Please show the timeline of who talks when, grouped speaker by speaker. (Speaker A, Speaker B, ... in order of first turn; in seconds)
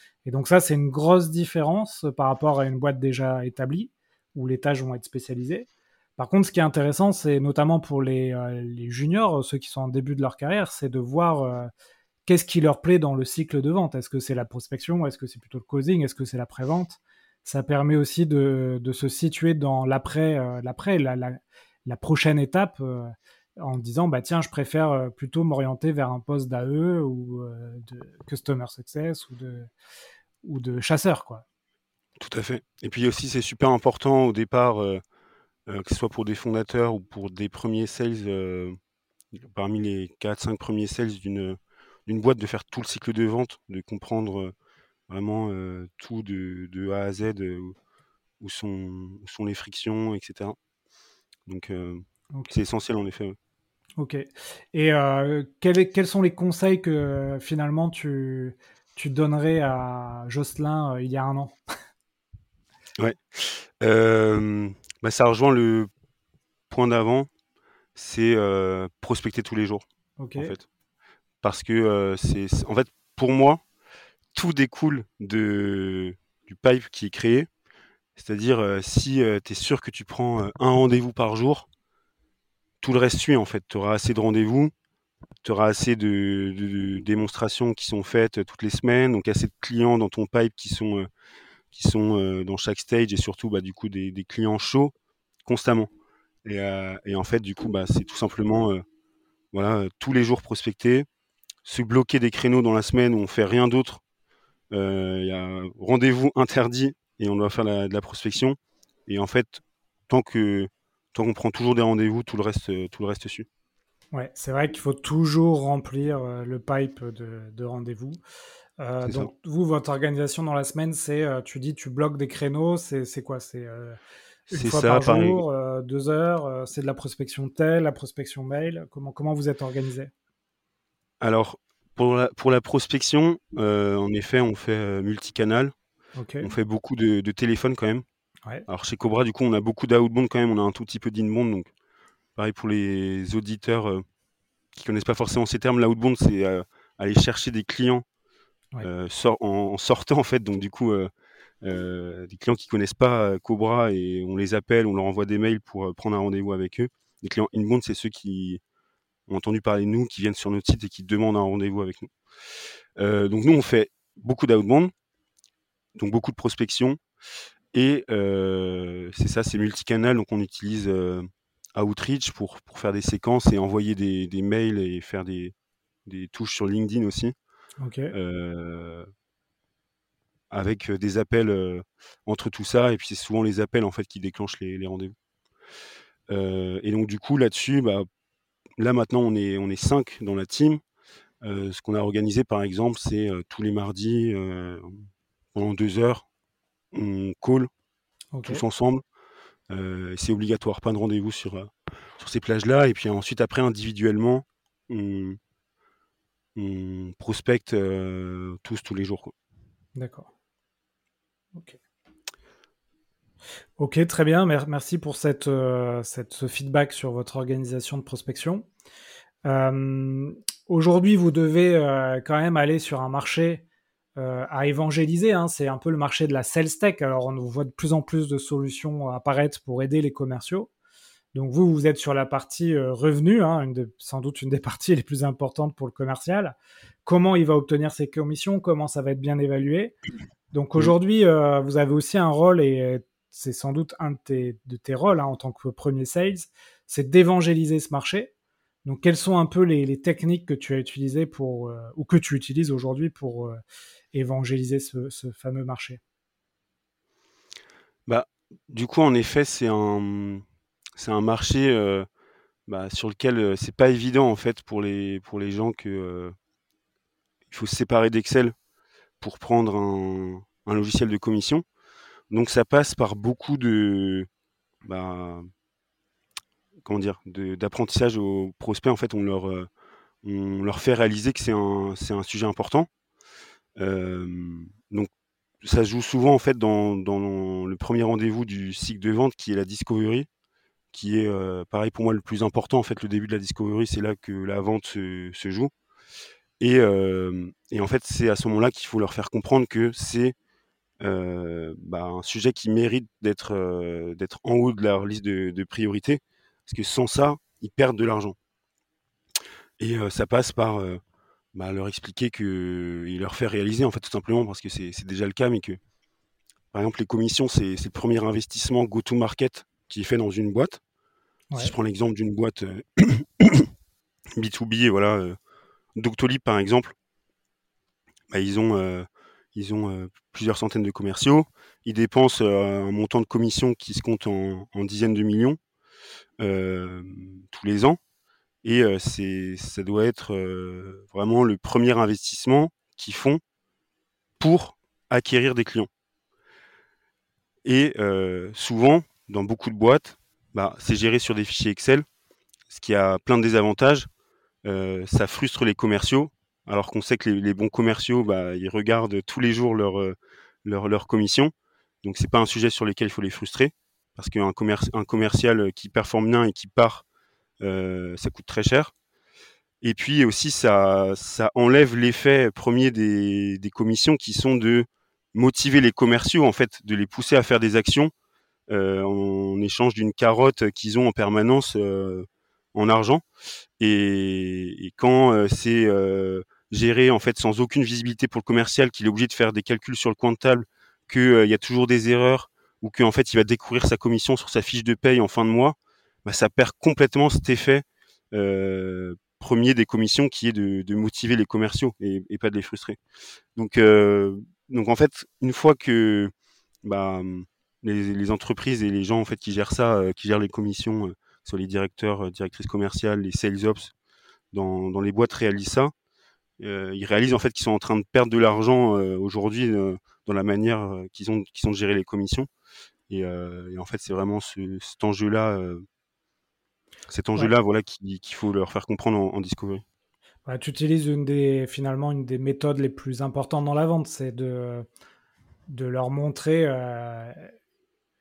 Speaker A: 0.2-11.7, 12.3-29.7, 30.4-31.4, 54.0-61.5, 70.2-70.5, 114.1-118.2, 118.8-124.0, 124.5-130.1, 136.2-136.5, 177.8-178.2, 198.3-198.6, 210.0-210.3, 213.8-218.7, 219.4-223.7, 224.2-230.7, 231.3-240.0, 240.5-248.3, 248.8-253.6, 254.1-256.0, 430.5-434.9, 435.7-437.5
Speaker B: 32.2-35.0, 35.7-38.8, 39.4-44.5, 45.1-47.8, 48.4-50.6, 51.5-53.4, 63.0-65.9, 66.7-67.3, 68.0-69.8, 70.4-70.6, 71.4-73.6, 74.3-77.5, 78.2-81.7, 82.8-84.7, 85.4-91.1, 91.7-94.9, 95.5-95.9, 96.5-98.8, 99.5-101.1, 101.7-104.0, 104.7-113.5, 119.0-119.3, 124.5-125.4, 131.2-135.7, 136.4-138.0, 138.7-141.7, 142.4-144.0, 144.7-148.0, 148.8-151.1, 151.6-158.6, 159.3-162.1, 163.0-164.9, 166.0-167.0, 167.7-175.5, 176.1-177.3, 178.1-179.1, 180.5-185.1, 186.3-188.1, 188.8-190.8, 191.4-196.2, 196.9-197.7, 198.4-199.0, 199.7-205.4, 206.6-209.3, 258.1-260.4, 261.0-262.1, 262.7-266.3, 267.5-268.5, 269.2-271.6, 272.3-274.3, 274.9-275.5, 276.9-279.7, 280.2-282.9, 283.8-285.1, 285.6-290.3, 290.9-295.7, 296.6-300.4, 301.0-308.4, 309.8-311.0, 311.5-315.8, 316.7-320.8, 321.6-323.7, 324.4-325.4, 326.0-326.9, 328.3-335.6, 336.4-338.0, 338.6-343.4, 344.4-345.9, 347.6-352.1, 352.7-354.1, 354.6-361.5, 362.0-367.0, 367.6-368.9, 369.8-378.1, 378.7-383.2, 383.8-403.0, 403.6-406.3, 406.8-413.9, 414.5-415.9, 416.6-422.5, 423.1-425.8, 427.1-429.8